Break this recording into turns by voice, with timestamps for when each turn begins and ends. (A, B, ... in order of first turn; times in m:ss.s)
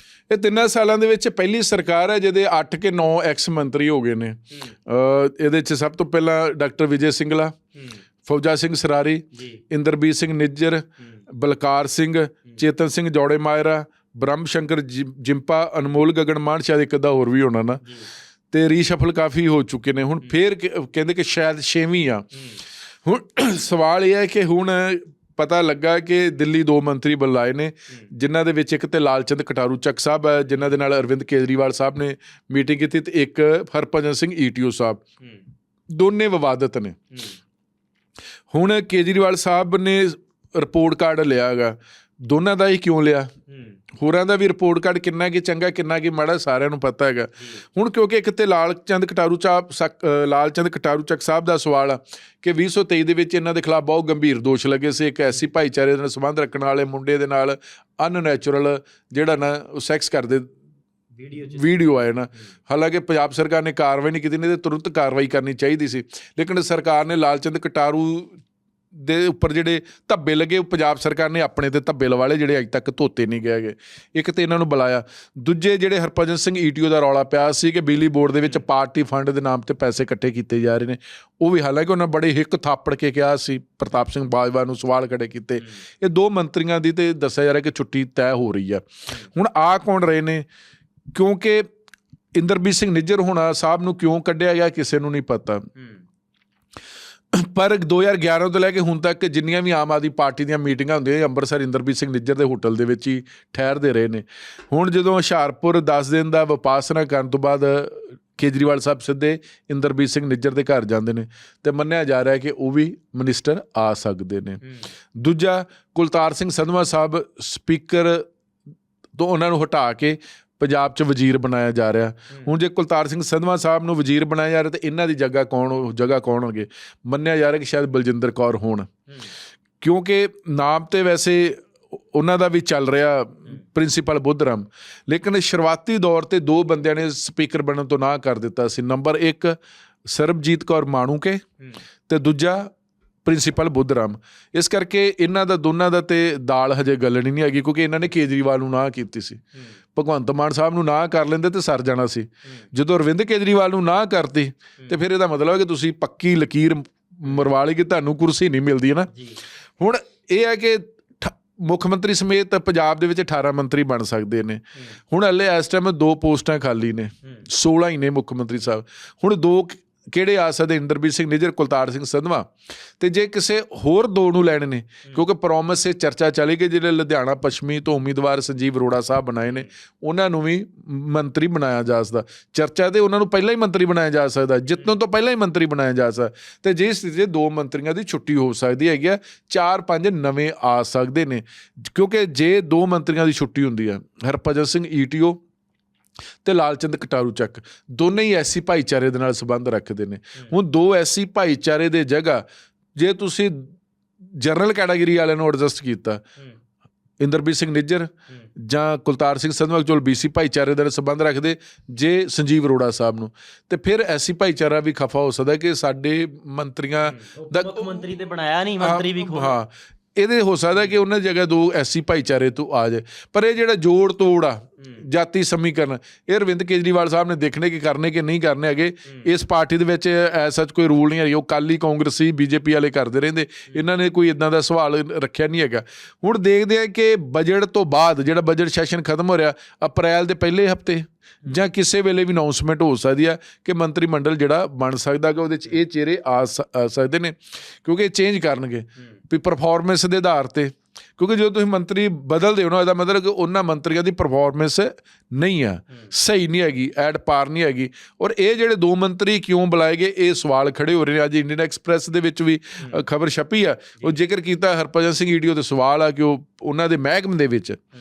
0:00.3-0:07.6 A
0:08.2-0:17.8 A
0:09.4-0:09.6 B
0:18.5-0:22.3 A
0:22.4-0:22.6 B
0:23.0-0:35.0 A
0:35.9-0:37.0 A
0:38.5-0:43.3 A
0:43.5-0:43.8 B
0:44.0-1:00.5 A
1:01.2-1:01.7 B
1:01.5-1:08.4 A
1:08.9-1:30.4 A
1:31.1-1:31.7 A
1:32.4-1:35.7 A
1:37.3-1:54.6 A
1:55.1-1:58.2 A
1:59.2-2:08.9 A
2:09.8-2:21.4 A
2:22.1-2:22.7 A
2:23.2-2:29.4 A
2:30.0-2:39.1 A
2:39.1-2:39.4 B
2:39.8-3:15.4 A
3:16.4-3:22.4 A
3:23.0-3:23.7 A
3:24.2-3:26.2 A
3:27.2-3:38.0 A
3:37.1-3:39.6 B
3:38.8-4:27.8 A